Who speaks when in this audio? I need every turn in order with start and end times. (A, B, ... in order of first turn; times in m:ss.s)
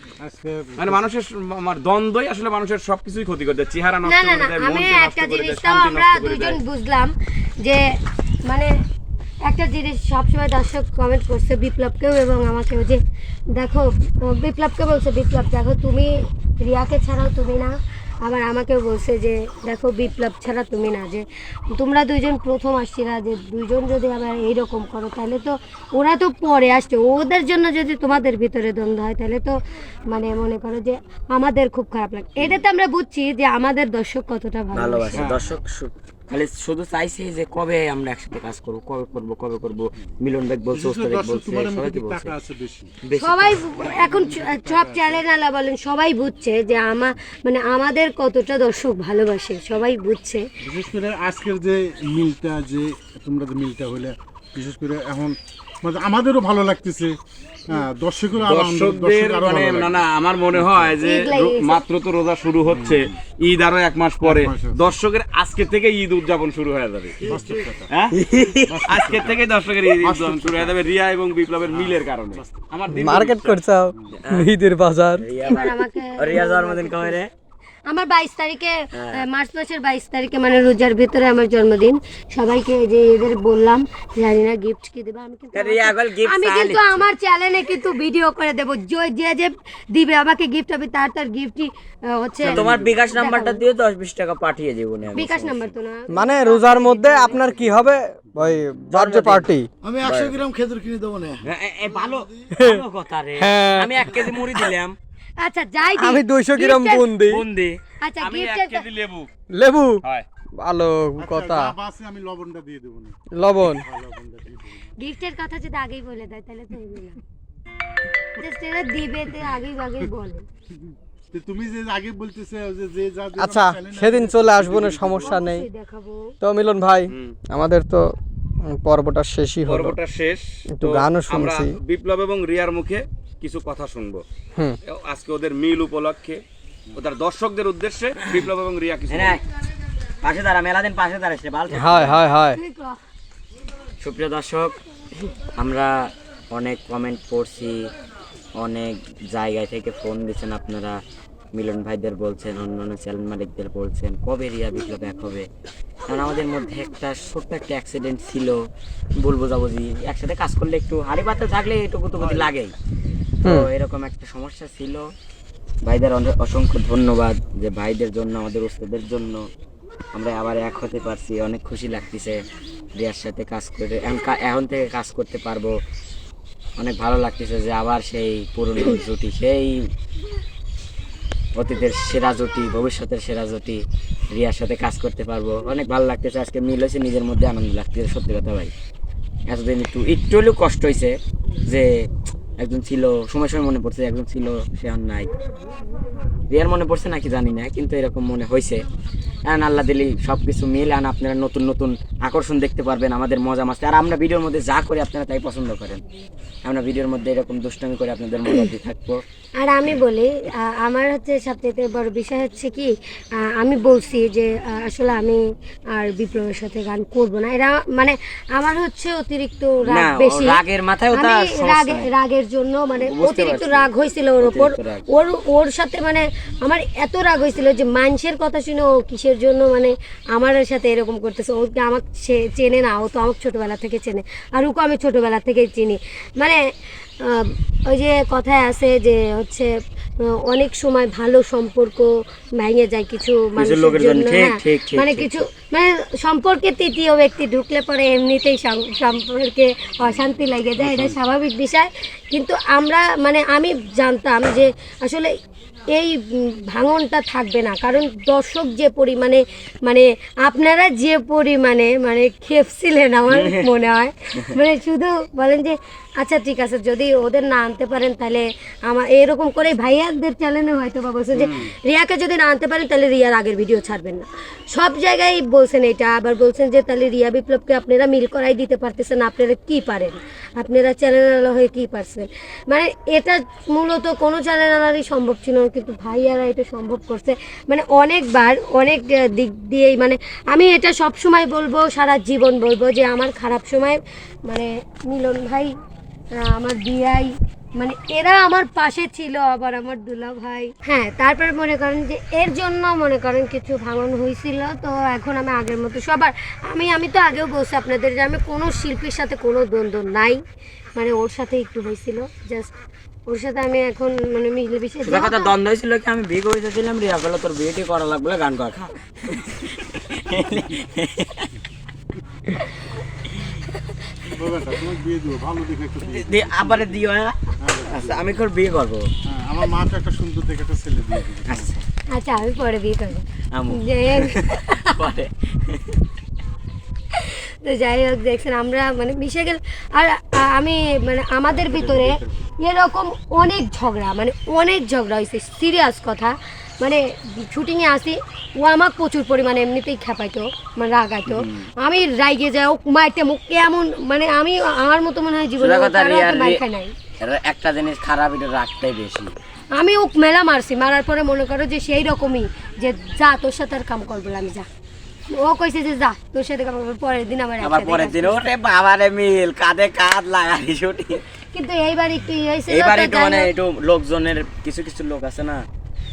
0:00.2-0:01.0 A
0:00.8-0:06.6 B
0:04.0-0:07.8 C
0:08.5-0:08.7 C
0:09.4-0:13.0 C
0:13.5-0:35.4 C
0:32.4-0:32.6 D
0:34.7-0:42.4 D
0:35.1-0:35.5 A
0:40.7-0:42.9 A
0:43.0-0:43.6 D
0:43.2-0:50.4 C
0:43.8-0:45.2 A
0:50.6-0:57.2 A
0:57.7-1:00.9 A
0:58.4-1:07.2 B
1:01.0-1:01.8 C
1:02.7-1:03.1 A
1:04.2-1:04.9 A
1:07.2-1:07.9 A
1:07.3-1:07.7 E
1:07.9-1:08.1 B
1:08.1-1:08.8 D
1:08.6-1:10.8 A
1:08.9-1:13.6 B
1:11.7-1:12.6 A
1:12.9-1:15.2 F
1:14.2-1:14.5 D
1:15.2-1:17.3 D
1:15.4-1:17.2 C
1:17.9-1:33.6 C
1:18.9-1:19.2 D
1:25.5-1:27.1 D
1:32.4-1:35.7 D
1:32.6-1:33.0 A
1:35.1-1:37.6 C
1:36.1-1:39.7 F
1:38.9-1:39.5 D
1:39.8-1:42.5 E
1:40.0-1:40.4 D
1:41.4-1:45.0 D
1:42.6-1:42.8 F
1:43.4-1:44.6 F
1:45.4-1:47.1 C
1:46.0-1:47.4 F
1:47.2-1:47.8 D
1:48.0-1:48.8 C
1:48.2-1:49.3 B
1:49.5-1:50.0 F
1:50.6-1:51.7 F
1:51.2-1:54.8 A
1:53.3-1:53.8 F
1:55.0-1:57.2 C
1:58.4-2:00.4 C
2:01.3-2:05.4 A
2:03.4-2:05.6 F
2:05.2-2:06.3 C
2:06.4-2:08.1 F
2:07.1-2:07.4 B
2:08.7-2:10.0 F
2:09.6-2:14.2 B
2:10.7-2:11.7 F
2:14.8-2:16.4 B
2:16.9-2:19.4 B
2:19.1-2:19.4 D
2:20.2-2:22.2 D
2:21.7-2:22.6 F
2:22.5-2:23.0 C
2:24.0-2:24.8 D
2:25.5-2:27.9 D
2:28.6-2:31.0 D
2:31.5-2:35.5 D
2:36.1-2:38.6 D
2:39.2-2:42.7 D
2:43.4-2:45.1 D
2:45.8-2:49.4 D
2:50.1-2:52.4 D
2:52.9-2:55.7 D
2:56.8-2:59.8 D
3:01.6-3:08.7 D
3:09.5-3:15.3 D
3:16.5-3:18.8 D
3:19.4-3:26.0 D
3:26.6-3:29.2 D
3:29.6-3:32.9 C
3:33.6-3:35.4 C
3:35.9-3:40.6 C
3:39.8-3:42.1 D
3:41.1-3:56.6 C
3:43.0-3:45.0 D
3:57.2-3:59.7 C
4:00.2-4:15.3 C
4:03.6-4:05.4 D
4:10.8-4:11.1 D
4:16.7-4:55.7 C
4:23.3-4:23.7 D
4:31.4-4:31.7 B
4:56.4-5:10.4 C
5:11.0-5:12.7 C
5:13.3-5:15.5 C
5:15.0-5:21.5 D
5:24.3-5:27.0 A
5:26.0-5:29.1 D
5:27.6-5:28.4 A
5:29.2-5:31.7 A
5:31.4-5:31.8 D
5:32.1-5:35.0 C
5:33.5-5:36.0 D
5:37.1-5:56.9 C
5:41.7-5:42.0 A
5:51.3-5:51.6 D
5:55.6-5:56.6 D
5:57.2-5:59.3 D
5:59.7-6:04.7 C
6:05.3-6:08.3 C
6:07.6-6:11.2 D
6:11.5-6:13.5 C
6:12.7-6:15.6 D